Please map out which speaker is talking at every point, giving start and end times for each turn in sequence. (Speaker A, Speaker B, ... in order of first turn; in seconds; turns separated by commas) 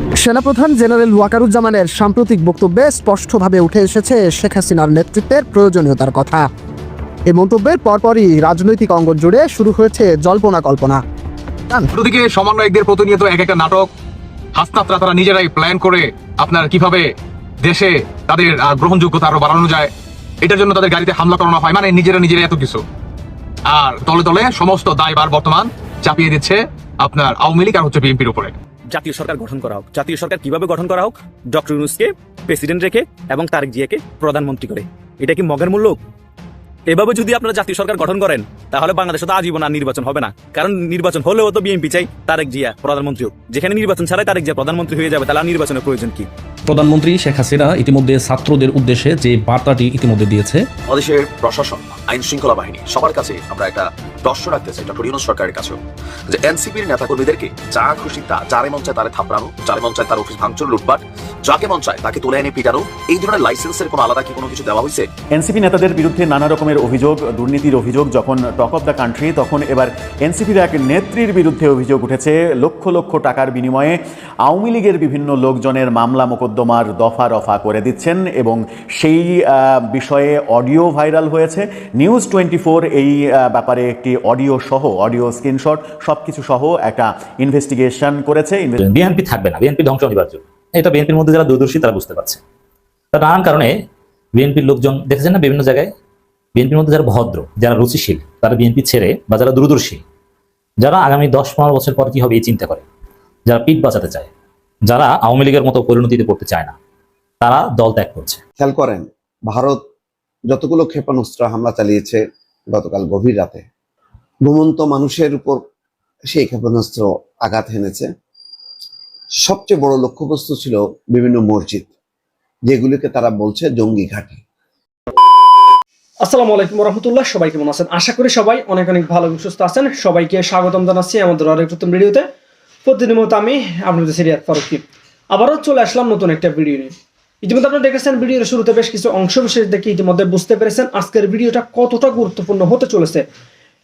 Speaker A: 0.2-6.5, Speaker A: 7.3-11.0, Speaker B: 11.9-13.9, Speaker B: 14.6-17.1, Speaker B: 17.6-19.9, Speaker B: 20.4-22.8, Speaker B: 23.7-28.6, Speaker C: 28.9-36.0, Speaker C: 36.9-46.3, Speaker D: 46.7-50.7, Speaker E: 50.9-55.8, Speaker E: 56.3-65.1, Speaker F: 65.3-88.8, Speaker G: 88.8-92.4, Speaker G: 93.1-93.7, Speaker G: 94.4-95.9, Speaker G: 96.5-100.0, Speaker G: 100.8-102.8, Speaker G: 103.5-104.3, Speaker G: 104.9-106.8, Speaker G: 107.4-108.4, Speaker H: 108.6-109.8, Speaker H: 110.5-112.2, Speaker H: 112.7-113.7, Speaker H: 114.5-115.6, Speaker H: 116.3-118.1, Speaker H: 119.4-121.9, Speaker H: 122.7-124.4, Speaker I: 126.2-132.3, Speaker I: 132.8-143.3